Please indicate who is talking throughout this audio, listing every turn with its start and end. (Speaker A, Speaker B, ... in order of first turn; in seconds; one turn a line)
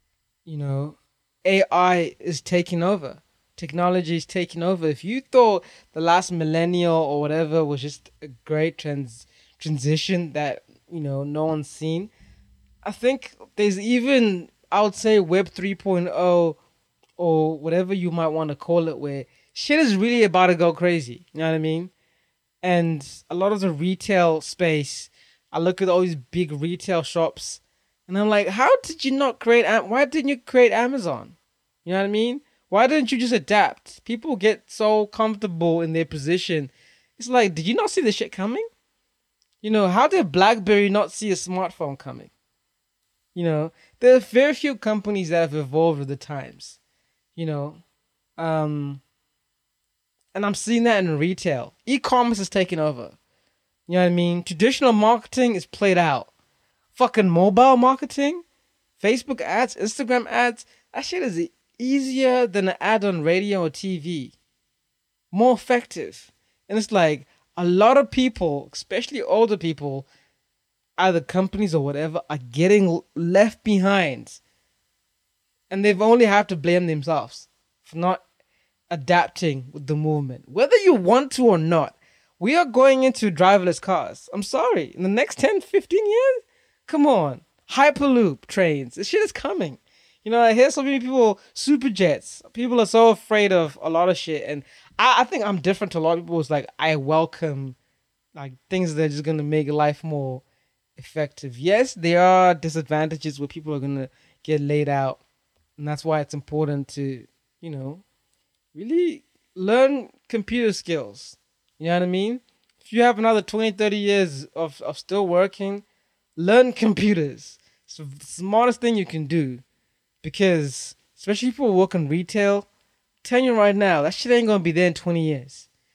Speaker A: 0.5-12.1
Speaker A: 12.8-16.6
Speaker A: 17.2-21.9
Speaker A: 22.6-38.7
Speaker A: 39.6-42.3
Speaker A: 43.4-46.8
Speaker A: 47.4-47.8
Speaker A: 48.4-49.0
Speaker A: 50.3-53.2
Speaker A: 53.9-56.3
Speaker A: 57.0-58.4
Speaker A: 59.0-64.3
Speaker A: 65.3-70.1
Speaker A: 71.0-74.4
Speaker A: 75.7-78.2
Speaker A: 78.9-97.8
Speaker A: 98.3-100.4
Speaker A: 101.0-105.2
Speaker A: 105.8-108.0
Speaker A: 108.7-115.8
Speaker A: 116.4-119.6
Speaker A: 120.2-122.7
Speaker A: 123.2-125.7